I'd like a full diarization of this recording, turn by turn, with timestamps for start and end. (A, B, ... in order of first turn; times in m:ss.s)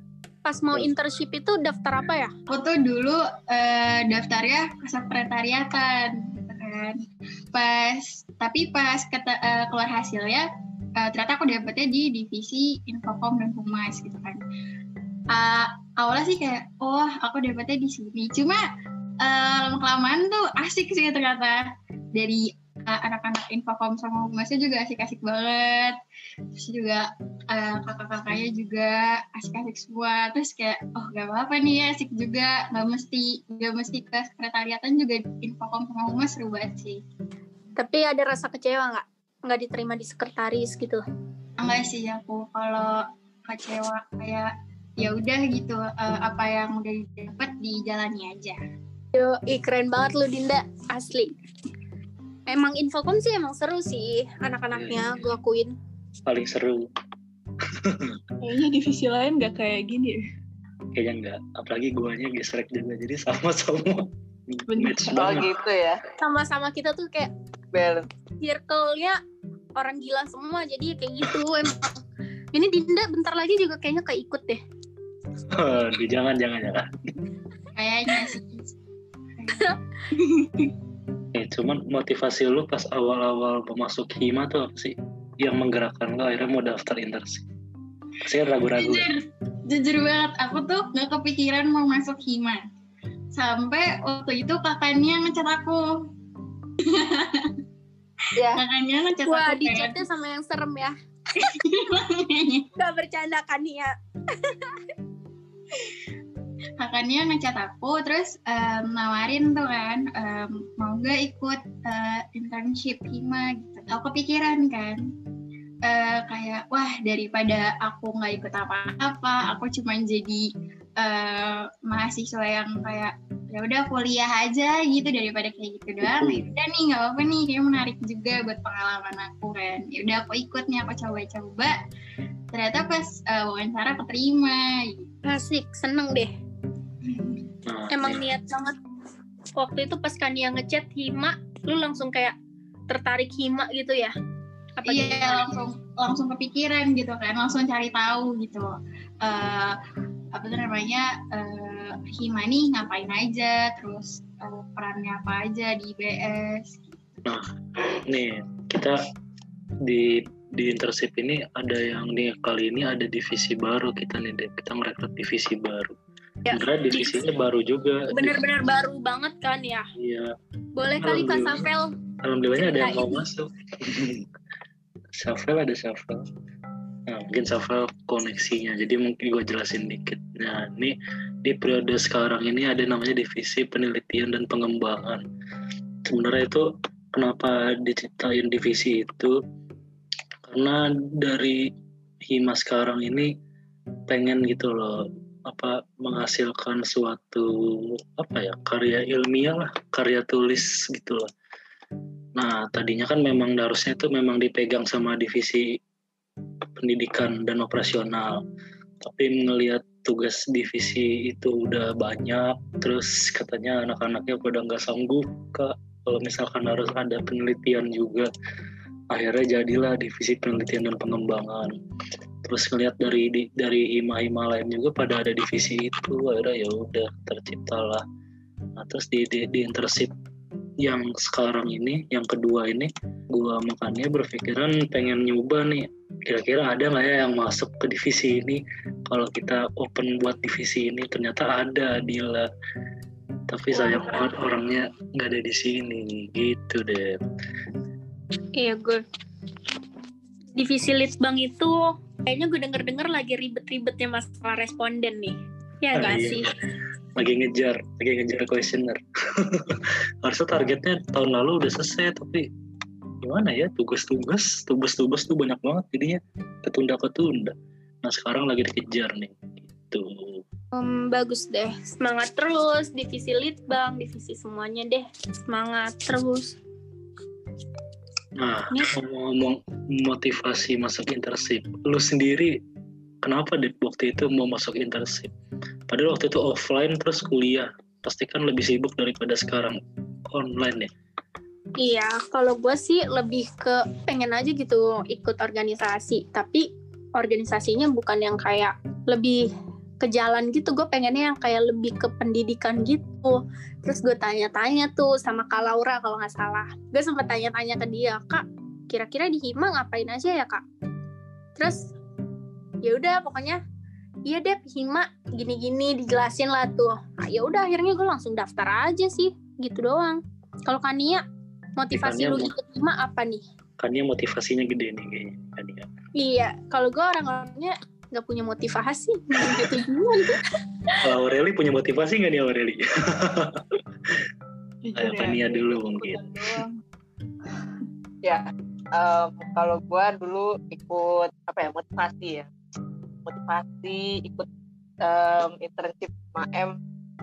0:00.4-0:02.3 A
0:02.5-0:14.4 B
0:15.3-0:18.6 B
0:19.2-0:26.0 B
0:26.5-0:37.0 B
0:37.8-0:41.0 A
0:41.6-0:48.6 B
0:49.1-0:51.4 A
0:52.5-0:55.8 A
0:54.7-0:55.1 C
0:56.3-0:56.9 C
0:57.8-0:58.2 C
0:58.4-1:00.2 D
1:00.9-1:05.5 C
1:04.7-1:05.4 D
1:05.2-1:06.0 E
1:06.2-1:07.3 A
1:07.7-1:08.1 E
1:08.4-1:09.2 A
1:09.8-1:12.0 A
1:12.5-1:14.6 A
1:15.5-1:16.9 C
1:17.8-1:18.7 B
1:19.4-1:20.7 B
1:21.3-1:27.5 C
1:28.2-1:29.2 C
1:28.8-1:32.7 B
1:33.3-1:35.8 B
1:36.8-1:37.6 B
1:38.4-1:38.6 E
1:38.5-1:40.0 B
1:39.2-1:41.0 A
1:41.4-1:42.7 B
1:42.8-1:44.8 A
1:46.8-1:55.0 B
1:55.8-2:11.8 B
2:06.0-2:06.5 C
2:12.5-2:15.1 B
2:15.2-2:16.3 A
2:17.0-2:17.4 B
2:17.6-2:18.2 C
2:17.9-2:18.8 A
2:19.6-2:22.4 A
2:22.9-2:24.1 A
2:24.8-2:25.5 A
2:24.9-2:29.8 B
2:30.3-2:37.0 B
2:37.3-2:39.0 C
2:39.9-2:45.9 C
2:46.5-2:47.2 A
2:46.5-2:48.4 C
2:48.1-2:49.9 A
2:50.0-2:50.3 C
2:50.8-2:51.9 A
2:51.0-2:51.7 C
2:52.2-2:54.3 C
2:52.6-2:53.2 A
2:55.2-2:56.2 C
2:57.1-3:05.2 C
3:06.0-3:09.3 C
3:10.5-3:11.6 C
3:12.3-3:13.3 C
3:14.1-3:21.3 C
3:22.4-3:25.7 C
3:26.8-3:28.4 C
3:29.0-3:38.3 C
3:39.1-3:41.8 C
3:42.4-3:48.0 C
3:48.8-3:50.1 C
3:50.8-4:02.5 C
4:03.5-4:07.2 C
4:03.7-4:04.4 A
4:08.6-4:09.0 A
4:10.6-4:16.5 A
4:16.0-4:16.5 C
4:17.2-4:22.5 C
4:23.2-4:30.4 C
4:30.7-4:36.6 A
4:38.4-4:42.6 C
4:43.2-4:45.3 C
4:45.9-4:49.8 C
4:50.3-4:50.9 C
4:51.8-4:59.4 A
5:00.0-5:10.6 A
5:11.6-5:11.9 A
5:12.8-5:13.6 A
5:14.3-5:21.2 A
5:21.8-5:23.4 A
5:21.9-5:22.5 C
5:23.8-5:25.9 C
5:26.2-5:31.0 A
5:31.0-5:34.2 C
5:34.8-5:36.8 D
5:35.0-5:36.6 C
5:39.0-5:42.5 E
5:43.2-5:44.5 E
5:45.0-5:46.8 E